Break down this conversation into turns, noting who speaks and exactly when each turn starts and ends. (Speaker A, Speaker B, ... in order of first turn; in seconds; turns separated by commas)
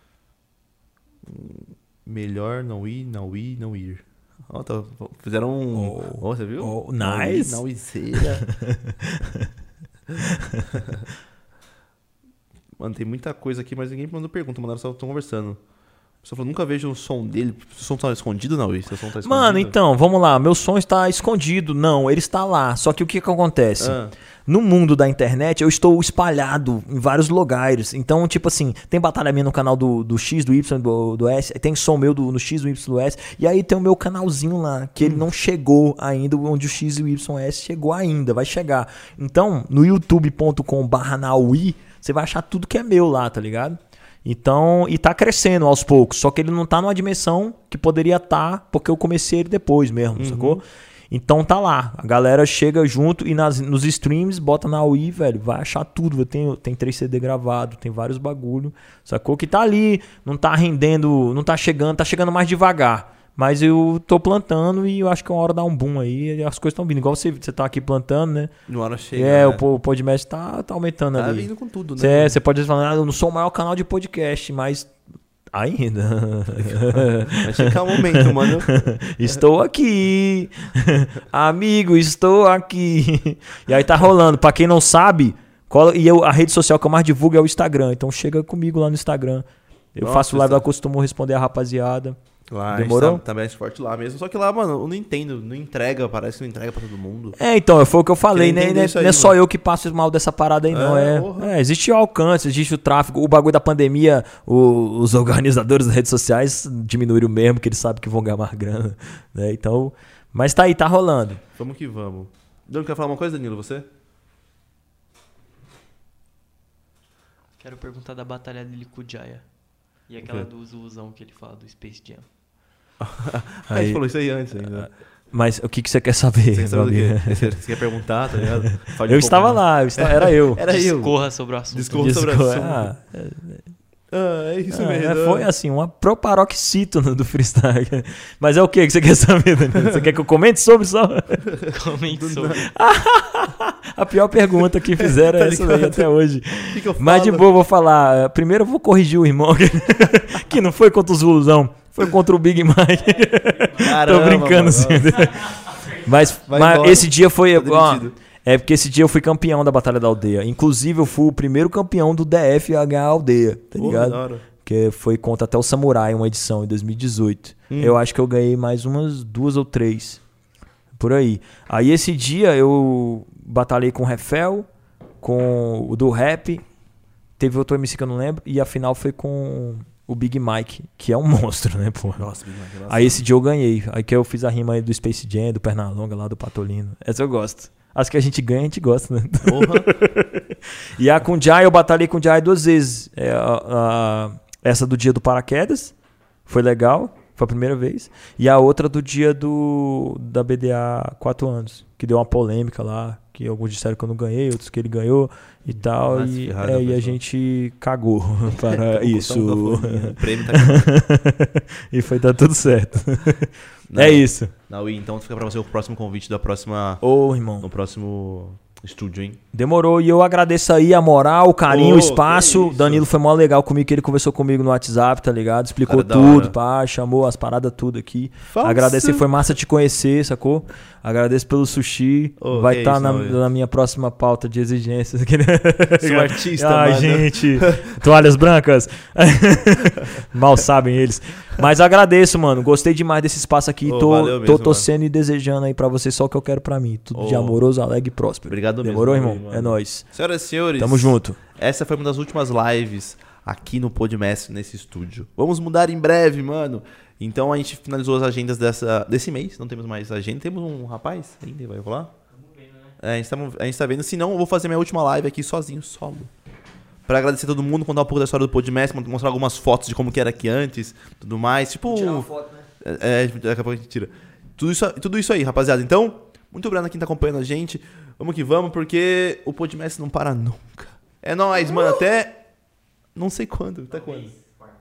Speaker A: 1.2-8.4, Speaker B: 5.7-7.6, Speaker B: 8.2-9.5, Speaker B: 10.2-10.8, Speaker A: 12.8-15.6, Speaker A: 16.2-19.8, Speaker B: 19.2-68.5, Speaker A: 23.8-24.1, Speaker A: 50.2-50.6, Speaker A: 68.7-69.6, Speaker B: 69.1-74.9, Speaker A: 71.2-72.4, Speaker B: 75.5-92.2, Speaker A: 76.6-78.7, Speaker A: 90.0-90.6, Speaker A: 92.5-97.4, Speaker B: 92.7-93.2, Speaker B: 97.4-111.4, Speaker A: 98.3-99.4, Speaker A: 100.7-101.5, Speaker A: 111.6-113.9, Speaker C: 117.6-119.5, Speaker C: 120.1-122.3, Speaker A: 120.2-120.5, Speaker A: 123.0-124.9, Speaker B: 123.7-124.0, Speaker B: 124.6-127.6, Speaker A: 126.5-131.1, Speaker B: 129.0-130.7, Speaker C: 130.7-132.2, Speaker A: 131.7-132.9, Speaker B: 131.9-133.7, Speaker A: 134.1-135.5, Speaker B: 134.7-141.5, Speaker A: 141.5-142.7, Speaker C: 141.7-142.6, Speaker B: 142.6-170.2, Speaker A: 145.0-146.1, Speaker A: 146.7-147.5, Speaker A: 153.8-155.3, Speaker A: 156.5-158.2, Speaker A: 163.8-164.4, Speaker A: 167.7-168.0, Speaker B: 170.9-174.7, Speaker B: 175.2-176.6, Speaker B: 177.4-182.3, Speaker A: 182.2-183.2, Speaker B: 182.9-195.9, Speaker A: 189.4-189.9, Speaker B: 196.5-214.5, Speaker A: 205.9-207.2, Speaker A: 208.7-210.9, Speaker A: 213.9-217.0, Speaker B: 217.0-217.7, Speaker A: 217.6-219.4, Speaker B: 219.5-250.1, Speaker A: 221.7-223.1, Speaker A: 225.9-226.6, Speaker A: 228.5-229.2, Speaker A: 232.4-233.4, Speaker A: 236.0-237.9, Speaker A: 243.8-244.9, Speaker A: 247.2-247.6, Speaker A: 248.5-262.1, Speaker B: 250.8-251.4, Speaker C: 262.5-262.9, Speaker A: 263.0-266.3, Speaker A: 267.1-272.3, Speaker B: 271.9-272.7, Speaker A: 272.8-282.4, Speaker A: 283.1-284.3